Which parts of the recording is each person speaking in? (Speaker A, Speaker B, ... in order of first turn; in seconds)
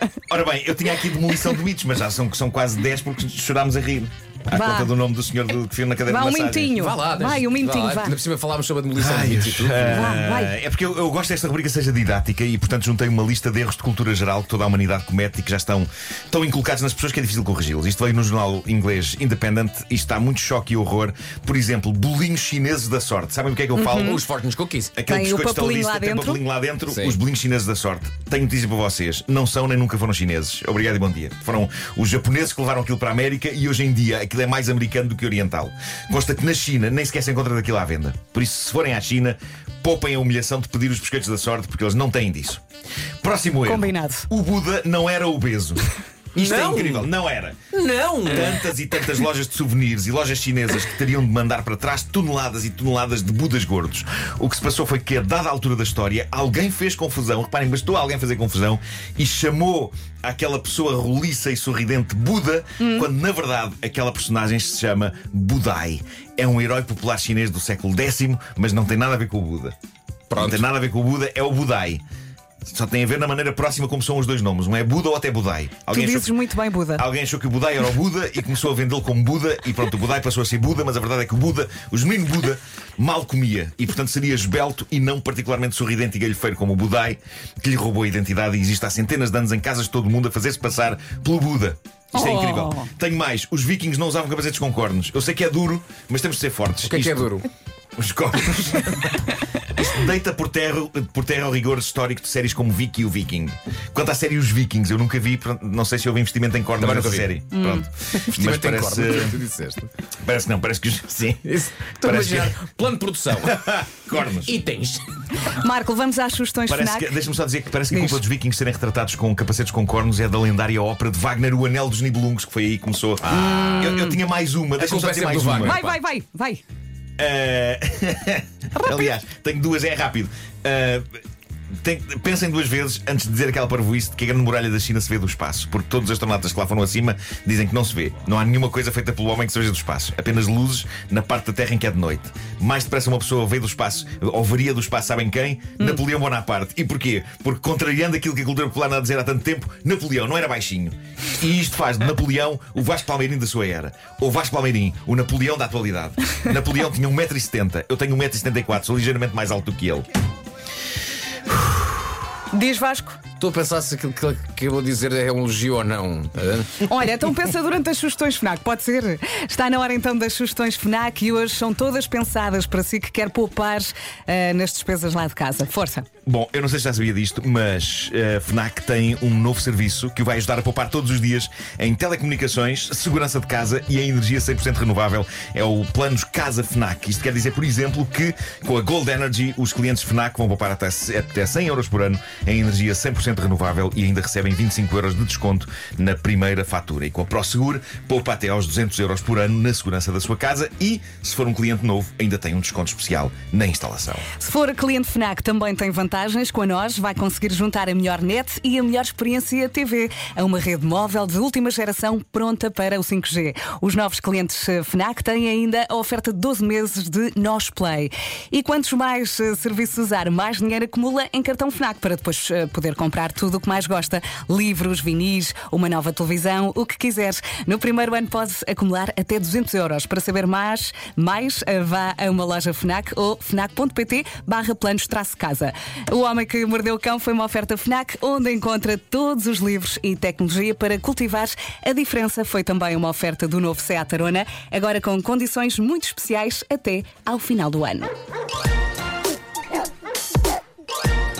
Speaker A: 0.3-6.8, 9.0-24.2, 25.0-42.6, 43.2-47.6, 48.2-69.8, 70.3-72.0, 72.7-76.4, 77.0-97.4, 98.0-109.4, 110.2-112.6, 113.4-114.5, 116.7-125.8, 127.2-131.2, 131.8-160.1, 176.3-204.2
Speaker B: 4.5-4.9, 6.1-8.2, 9.9-10.6, 23.8-24.2, 25.1-26.4, 43.6-44.3, 62.8-63.1, 75.9-77.0, 92.1-92.9, 107.5-107.9, 115.4-117.2, 117.9-118.2, 123.3-124.2, 125.6-126.6, 128.8-129.1, 162.5-163.2, 166.9-176.1, 204.4-248.1
Speaker C: 6.8-10.2, 23.9-24.9, 26.9-27.2, 46.3-47.1, 47.7-48.6, 70.3-70.7, 96.8-97.5, 106.8-107.3, 108.1-109.9, 111.5-115.0, 123.2-123.9, 124.8-126.0, 163.4-166.8